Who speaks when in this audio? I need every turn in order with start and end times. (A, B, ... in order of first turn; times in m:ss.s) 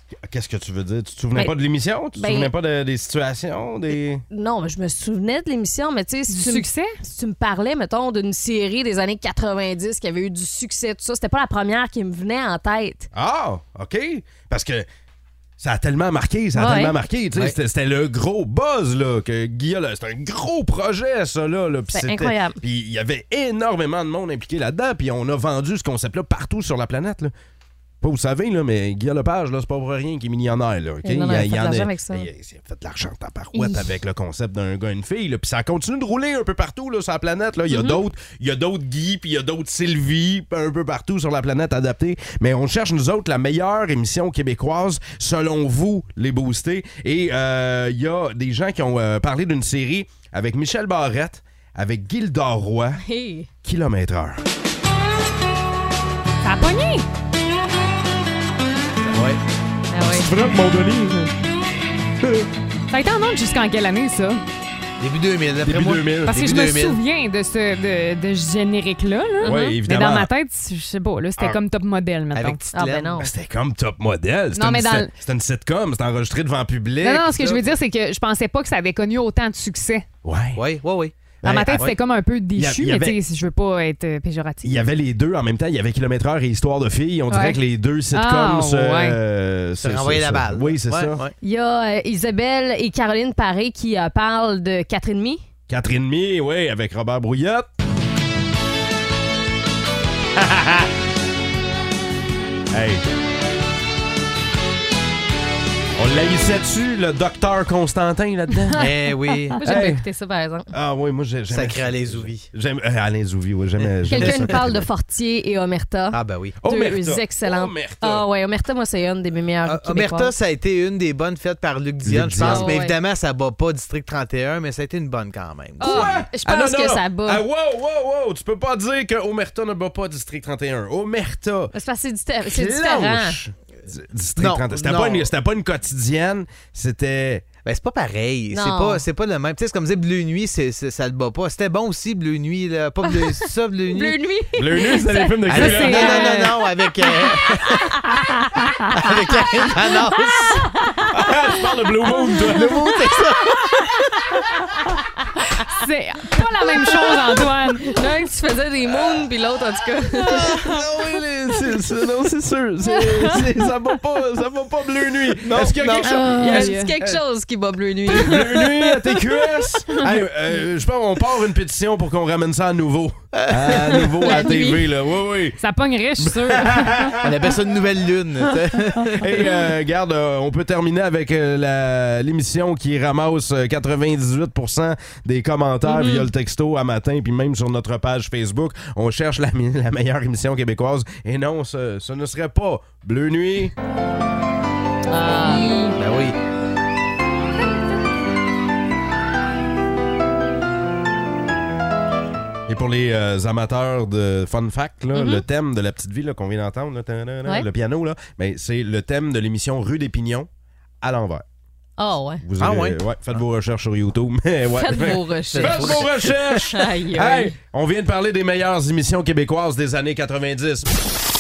0:00.3-0:04.2 A
0:02.2-0:02.5 B
0:03.9-0:13.1 B
0:06.3-0:07.0 C
0:13.1-0:14.9 A
0:15.6-0:27.3 A
0:16.5-0:17.0 B
0:21.9-0:22.6 B
0:28.0-0:53.0 A
0:31.0-0:32.3 B
0:37.7-0:38.0 B
0:53.0-0:53.5 B
0:53.6-0:54.4 A
0:56.4-0:57.1 C
0:59.1-0:59.4 D
0:59.9-1:00.3 B
1:00.2-1:01.3 A
1:02.9-1:04.4 C
1:05.0-1:07.0 D
1:05.6-1:06.6 A
1:06.3-1:12.6 C
1:09.4-1:09.8 B
1:09.4-1:10.3 A
1:12.3-1:13.3 D
1:12.7-1:13.3 B
1:13.2-1:17.7 A
1:14.6-1:15.1 C
1:17.0-1:20.1 C
1:20.2-1:20.6 A
1:20.6-1:21.2 D
1:21.4-1:21.9 A
1:21.4-1:24.8 C
1:22.6-1:23.2 A
1:24.6-1:31.2 A
1:27.3-1:27.6 B
1:28.1-1:29.2 C
1:29.8-1:31.3 D
1:31.4-1:35.4 B
1:35.7-1:37.7 A
1:40.4-1:40.9 A
1:42.7-1:43.0 A
1:46.0-1:48.8 A
1:48.7-1:49.6 D
1:49.6-1:50.7 B
1:49.6-1:50.0 A
1:50.7-1:54.9 A
1:51.5-1:52.5 D
1:53.8-1:54.6 D
1:54.1-2:00.3 B
1:56.1-1:56.6 D
1:56.6-1:58.3 A
1:59.7-2:06.0 D
2:02.0-2:02.8 A
2:02.4-2:02.9 B
2:05.8-2:06.1 C
2:05.8-2:07.4 B
2:05.8-2:11.7 A
2:11.7-2:13.4 B
2:12.5-2:17.5 A
2:14.4-2:15.3 D
2:17.6-2:24.2 D
2:18.5-2:19.0 B
2:23.0-2:23.4 B
2:23.9-2:26.3 B
2:24.6-2:26.3 A
2:25.5-2:27.8 D
2:25.5-2:26.6 C
2:29.0-2:30.6 D
2:30.5-2:31.0 B
2:31.1-2:33.0 A
2:32.1-2:32.8 B
2:32.4-2:33.6 D
2:35.7-2:37.9 C
2:37.9-2:40.7 B
2:40.4-2:46.8 A
2:45.5-2:46.0 D
2:45.5-2:49.4 B
2:46.4-2:47.0 C
2:48.1-2:55.6 A
2:53.4-2:54.1 D
2:53.7-2:54.8 B
2:55.6-2:57.1 C
2:56.2-2:57.3 A
2:57.2-2:59.4 D
2:59.2-3:13.7 A
3:05.9-3:06.3 B
3:15.1-3:15.8 B
3:15.4-3:16.0 C
3:16.0-3:16.4 D
3:22.7-3:30.5 A
3:25.1-3:25.4 B
3:31.0-3:31.4 A
3:32.0-3:32.4 B
3:32.4-3:40.9 A
3:32.6-3:33.4 D
3:34.8-3:37.6 B
3:35.5-3:36.5 D